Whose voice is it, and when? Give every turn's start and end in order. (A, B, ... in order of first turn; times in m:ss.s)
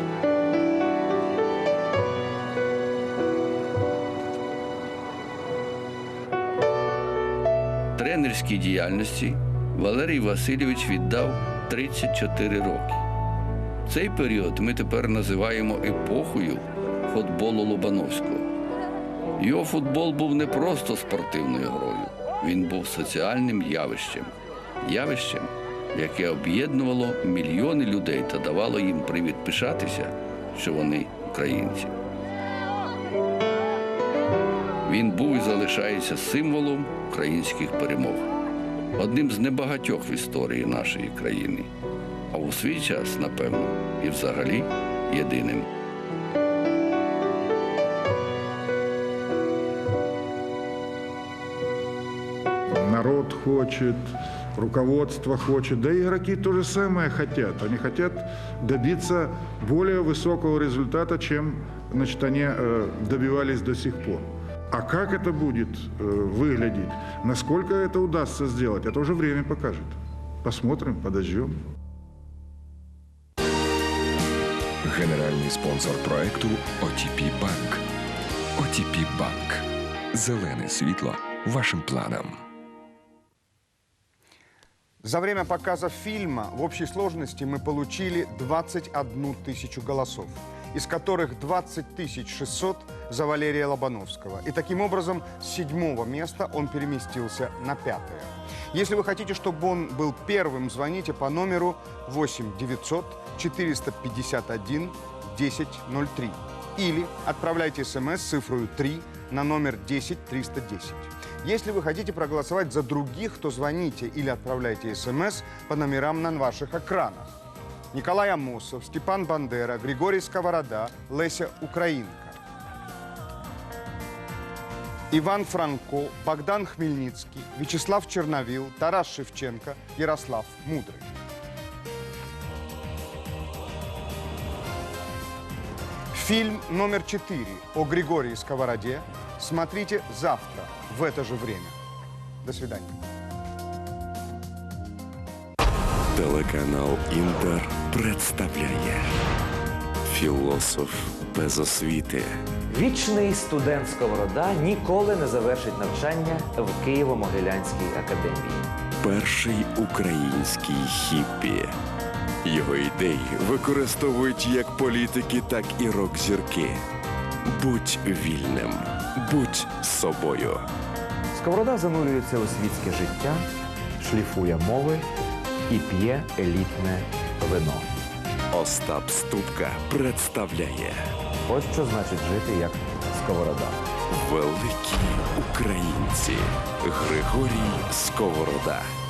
0:08.0-0:13.0 A
0:13.9-0:18.5 A
0:19.4-0:31.9 A
0:34.8-0:38.2 A
0:39.0-0:41.7 A
0:42.3-0:45.7 A
0:52.7-1:11.6 B
1:14.8-1:17.8 C
1:18.6-1:22.4 C
1:25.0-1:57.3 D
1:57.9-2:02.4 D
2:05.1-2:11.1 D
2:16.1-2:21.7 D
2:22.4-2:22.9 D
2:26.1-2:29.1 E
2:30.0-2:32.4 E
2:32.7-2:38.7 F
2:39.0-2:41.8 E
2:42.4-2:46.8 E
2:47.4-2:50.6 E
2:51.3-2:53.4 F
2:54.0-2:55.1 F
2:55.7-2:57.9 F
2:58.5-3:01.1 E
3:01.5-3:03.8 F
3:04.1-3:08.9 E